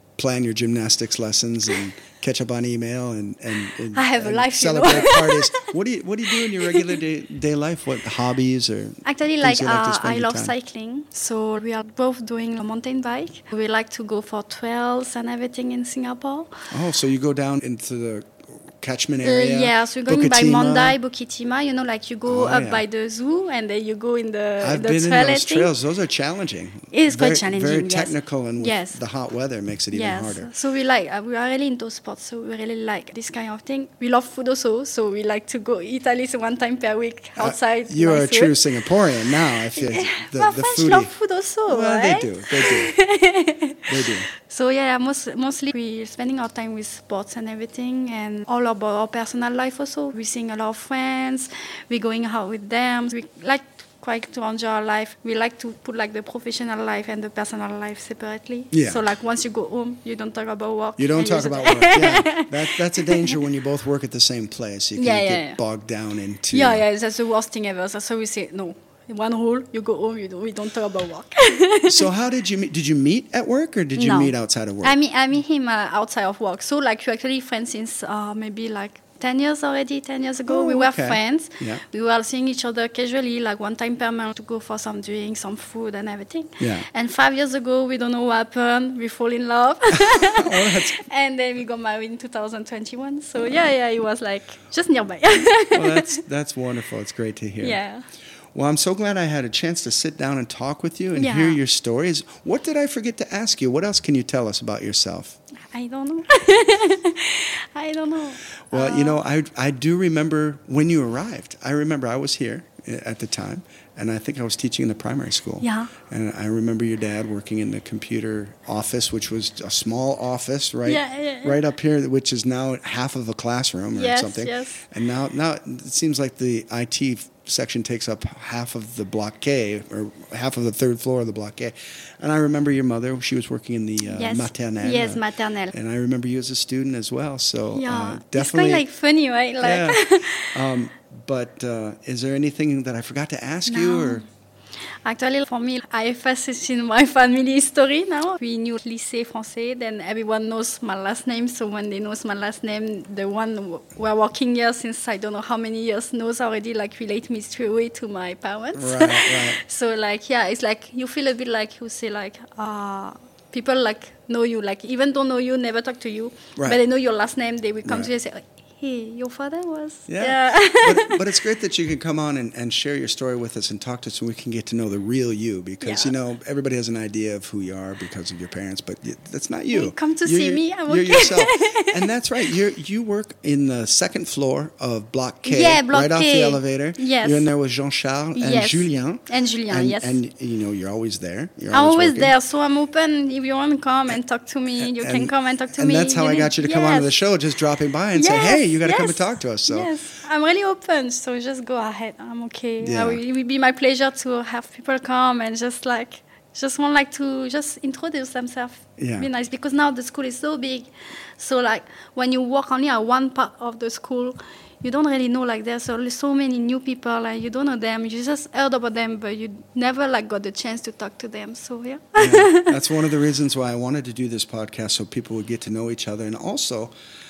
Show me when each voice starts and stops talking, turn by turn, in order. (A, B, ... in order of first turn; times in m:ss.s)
0:00.2-0:10.5 A
0:03.9-0:05.7 B
0:06.4-0:06.9 B
0:09.0-0:16.6 B
0:16.7-0:21.0 A
0:19.2-0:25.7 B
0:22.3-0:22.8 A
0:24.6-0:30.5 A
0:26.9-0:29.0 B
0:29.9-0:38.6 B
0:37.4-0:41.1 A
0:39.5-1:03.4 B
0:41.7-0:42.9 A
0:43.9-0:44.2 A
0:58.7-0:59.0 A
1:01.0-1:06.8 A
1:05.0-1:05.6 B
1:06.5-1:12.1 B
1:11.9-1:15.0 A
1:14.0-1:36.2 B
1:20.5-1:21.8 A
1:26.6-1:26.9 A
1:29.9-1:31.0 A
1:35.7-1:37.8 A
1:37.6-1:38.0 B
1:38.5-1:45.4 A
1:41.2-1:41.6 B
1:45.7-1:49.2 B
1:48.7-2:18.8 A
1:55.6-1:55.9 B
2:00.8-2:01.6 B
2:03.9-2:04.9 B
2:14.0-2:15.7 B
2:17.7-2:20.7 B
2:19.6-2:24.2 A
2:23.7-2:24.2 B
2:25.0-2:51.2 B
2:38.7-2:39.6 A
2:50.1-3:12.3 A
2:55.8-2:56.1 B
2:59.7-3:02.1 B
3:05.4-3:07.5 B
3:08.3-3:10.2 B
3:11.7-3:17.1 B
3:14.8-3:19.9 A
3:18.1-3:42.8 B
3:22.8-3:23.2 A
3:29.0-3:29.3 A
3:42.2-3:46.9 A